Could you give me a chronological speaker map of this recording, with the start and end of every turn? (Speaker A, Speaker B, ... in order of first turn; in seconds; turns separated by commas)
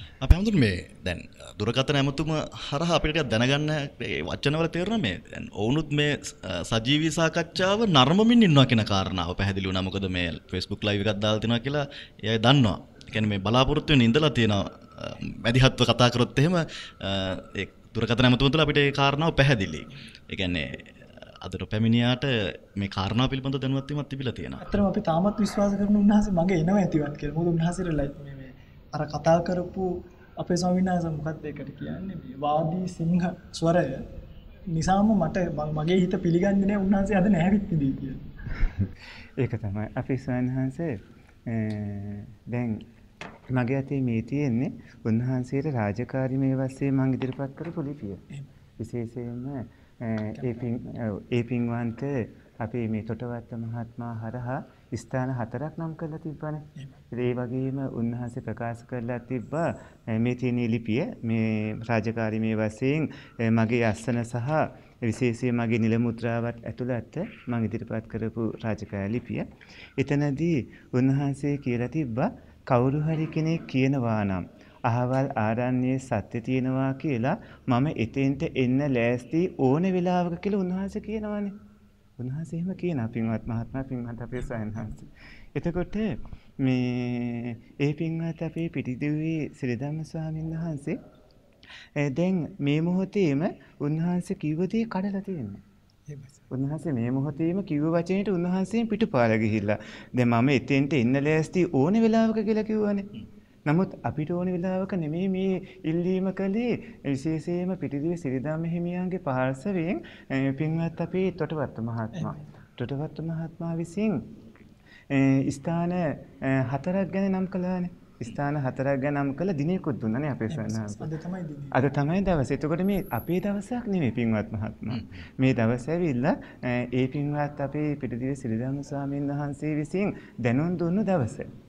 Speaker A: 0.2-24.6, Speaker B: 24.6-34.0, Speaker B: 34.7-38.2, Speaker C: 38.6-42.9, Speaker C: 43.5-48.2, Speaker C: 48.8-81.5, Speaker B: 50.3-50.7, Speaker C: 82.2-91.0, Speaker C: 92.0-95.6, Speaker B: 96.1-96.4, Speaker C: 96.5-103.1, Speaker C: 103.7-114.3, Speaker B: 112.2-112.4, Speaker C: 115.1-121.1, Speaker B: 120.5-121.8, Speaker C: 121.7-131.5, Speaker A: 124.9-125.2